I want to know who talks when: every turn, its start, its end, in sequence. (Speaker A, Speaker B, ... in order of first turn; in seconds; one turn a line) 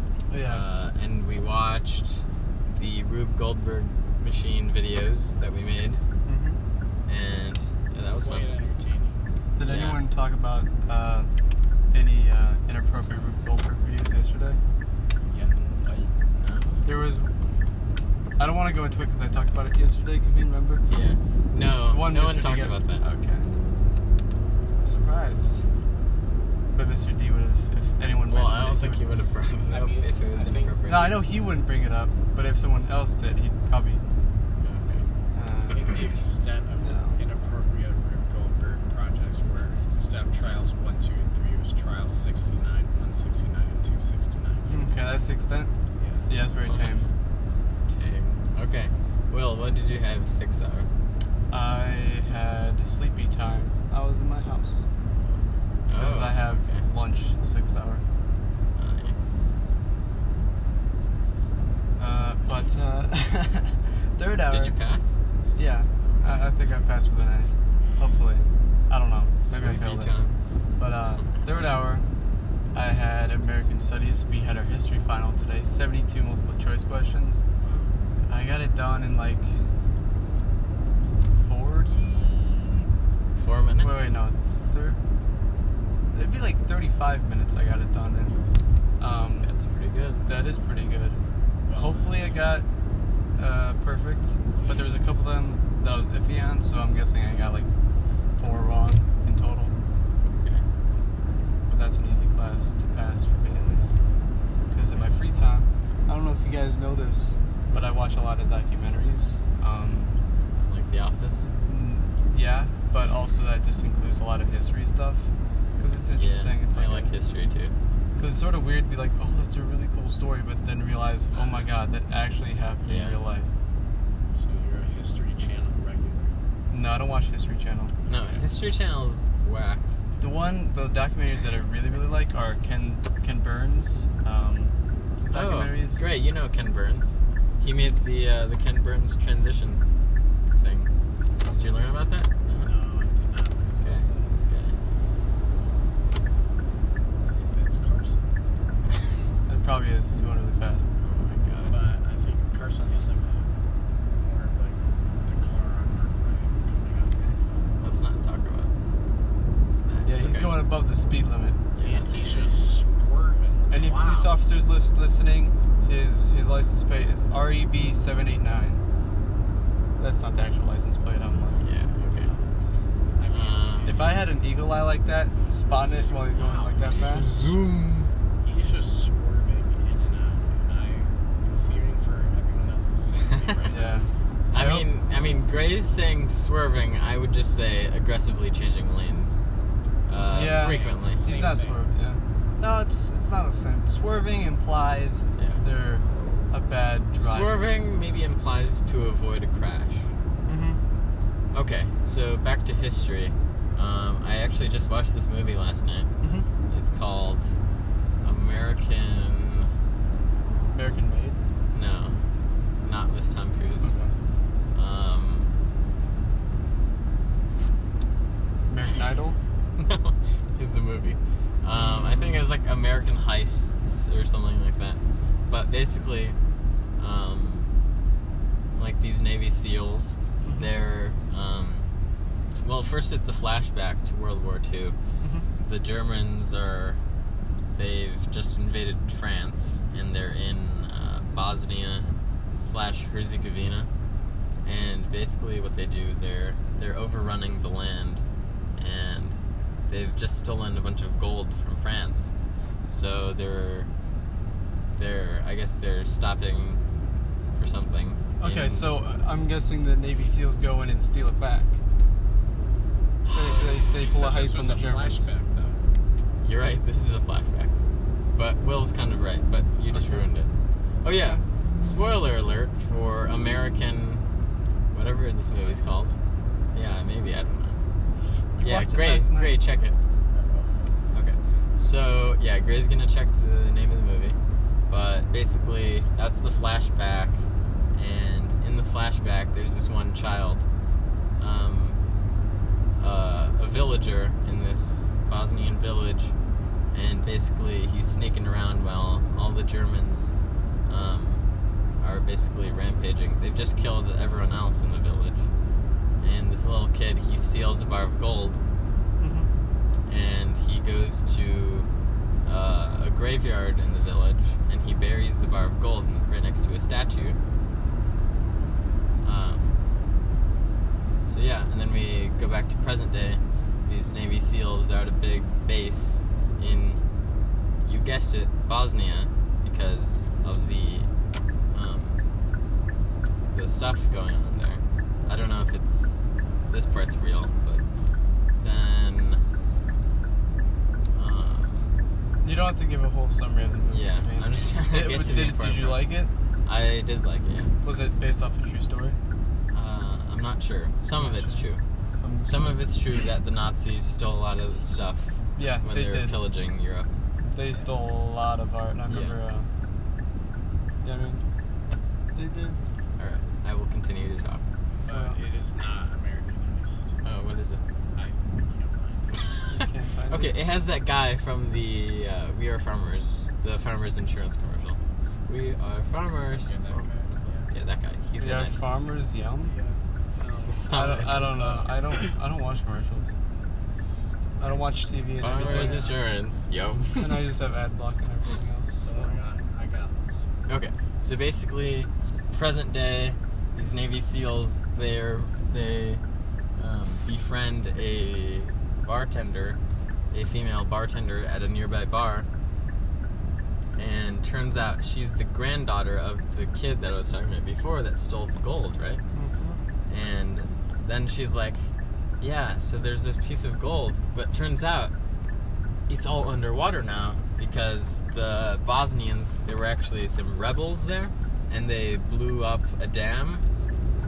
Speaker A: 0.3-0.6
Speaker B: 0.4-6.0
Speaker A: 6.2-6.6
Speaker B: 7.1-8.5
Speaker C: 8.1-9.2
Speaker A: 9.6-11.3
Speaker B: 9.6-10.0
Speaker A: 11.9-14.6
Speaker C: 15.3-16.1
Speaker B: 16.4-16.9
Speaker A: 16.8-17.3
Speaker A: 18.4-20.9
Speaker B: 20.9-23.0
Speaker A: 21.9-23.5
Speaker A: 24.8-25.6
Speaker A: 26.7-29.0
Speaker B: 28.3-31.2
Speaker C: 29.6-30.8
Speaker A: 30.9-34.0
Speaker B: 34.6-35.1
Speaker A: 35.3-36.1
Speaker C: 35.7-44.8
Speaker A: 36.8-37.2
Speaker A: 44.7-45.7
Speaker C: 46.0-46.3
Speaker A: 46.3-47.1
Speaker B: 46.7-47.0
Speaker B: 47.9-50.9
Speaker A: 51.5-54.8
Speaker B: 55.9-56.9
Speaker A: 55.9-58.0
Speaker B: 58.8-59.7
Speaker A: 62.0-64.8
Speaker B: 64.5-65.2
Speaker A: 65.5-70.2
Speaker B: 69.5-70.4
Speaker A: 70.8-72.1
Speaker A: 72.7-77.4
Speaker C: 77.6-77.9
Speaker A: 78.3-79.5
Speaker A: 81.3-82.9
Speaker B: 83.4-84.2
Speaker A: 83.8-85.0
Speaker A: 86.1-88.4
Speaker A: 89.0-89.5
Speaker B: 89.4-90.3
Speaker A: 90.3-91.2
Speaker C: 91.7-92.4
Speaker A: 91.7-92.7
Speaker A: 93.4-97.7
Speaker A: 98.4-99.8
Speaker B: 100.2-100.7
Speaker A: 101.7-104.0
Speaker A: 104.7-110.2
Speaker B: 110.7-111.5
Speaker A: 111.6-117.1
Speaker B: 116.2-117.7
Speaker A: 118.2-123.5
Speaker B: 122.9-123.2
Speaker C: 124.3-126.3
Speaker A: 126.7-127.9
Speaker B: 128.1-129.8
Speaker C: 128.1-128.4
Speaker A: 130.2-134.7
Speaker A: 135.3-136.0
Speaker B: 135.3-139.8
Speaker B: 140.5-140.9
Speaker B: 141.4-142.7
Speaker C: 142.6-144.3
Speaker B: 143.8-144.8
Speaker C: 147.3-148.3
Speaker A: 149.5-150.9
Speaker B: 151.0-151.8
Speaker C: 151.7-153.5
Speaker C: 154.2-157.4
Speaker B: 157.8-158.7
Speaker B: 159.9-160.7
Speaker A: 160.1-161.6
Speaker B: 161.8-162.1
Speaker C: 161.8-164.3
Speaker A: 163.7-168.8
Speaker A: 170.0-171.7
Speaker B: 171.6-172.3
Speaker C: 171.9-172.5
Speaker C: 173.1-174.2
Speaker B: 173.3-174.1
Speaker A: 173.8-177.4
Speaker C: 175.7-177.4
Speaker B: 177.0-178.1
Speaker C: 178.4-184.0
Speaker A: 183.7-184.9
Speaker B: 184.5-189.4
Speaker B: 190.1-191.2
Speaker A: 190.2-197.7
Speaker C: 190.4-191.8
Speaker B: 195.4-195.6
Speaker B: 197.2-200.1
Speaker A: 200.5-200.8
Speaker B: 201.5-206.1
Speaker A: 206.2-206.5
Speaker B: 206.7-207.5
Speaker B: 208.2-209.7
Speaker A: 210.7-211.4
Speaker B: 211.7-212.2
Speaker B: 212.8-213.9
Speaker A: 213.8-214.2
Speaker B: 214.7-215.6
Speaker A: 218.7-219.4
Speaker B: 219.8-226.4
Speaker A: 221.8-222.5
Speaker B: 227.0-227.7
Speaker B: 228.8-231.9
Speaker A: 230.4-230.7
Speaker B: 232.6-235.0
Speaker B: 235.6-237.0
Speaker B: 237.8-243.9
Speaker B: 244.6-248.2
Speaker B: 248.8-252.3
Speaker B: 252.9-253.9
Speaker B: 254.9-256.8
Speaker B: 257.6-258.9
Speaker A: 258.4-261.8
Speaker B: 263.3-263.6
Speaker A: 263.3-265.3
Speaker C: 263.4-265.8
Speaker B: 266.4-267.7
Speaker B: 268.3-270.5
Speaker A: 269.9-270.3
Speaker B: 271.0-274.2
Speaker B: 274.9-276.1
Speaker C: 275.5-276.0
Speaker B: 276.7-277.8
Speaker A: 278.6-279.6
Speaker B: 278.6-280.0
Speaker C: 280.3-280.7
Speaker B: 281.1-284.4
Speaker B: 284.9-287.4
Speaker B: 287.9-290.7
Speaker B: 291.4-292.0
Speaker B: 293.0-296.4
Speaker B: 296.9-300.3
Speaker B: 300.9-301.4
Speaker B: 302.0-305.5
Speaker B: 306.2-308.6
Speaker A: 309.2-309.5
Speaker B: 310.1-311.9
Speaker B: 312.4-317.4
Speaker B: 319.2-319.8
Speaker B: 321.2-327.0
Speaker B: 327.8-331.1
Speaker B: 331.7-332.2
Speaker B: 333.5-337.8
Speaker B: 338.6-339.4
Speaker B: 341.1-341.9
Speaker A: 342.4-346.3
Speaker B: 343.9-346.1
Speaker B: 346.6-347.8
Speaker A: 347.8-349.2
Speaker B: 349.7-351.8
Speaker A: 351.2-352.8
Speaker B: 352.5-357.1
Speaker A: 355.6-356.4
Speaker A: 357.5-359.7
Speaker B: 359.1-359.4
Speaker A: 361.0-361.4
Speaker A: 362.3-362.8
Speaker B: 363.2-364.7
Speaker C: 365.1-367.1
Speaker A: 365.1-365.4
Speaker B: 367.2-367.8
Speaker C: 368.1-369.6
Speaker A: 369.7-370.6
Speaker B: 370.3-378.8
Speaker C: 376.5-377.7
Speaker A: 378.4-379.8
Speaker C: 379.6-382.4
Speaker B: 380.7-381.7
Speaker A: 380.9-383.3
Speaker C: 384.1-384.3
Speaker A: 384.6-386.1
Speaker C: 385.4-386.3
Speaker B: 385.4-387.5
Speaker A: 387.1-389.4
Speaker C: 389.0-390.5
Speaker B: 390.7-396.2
Speaker B: 396.8-399.8
Speaker B: 400.3-402.5
Speaker B: 404.0-409.2
Speaker A: 409.3-409.8
Speaker B: 410.1-415.1
Speaker B: 416.1-423.6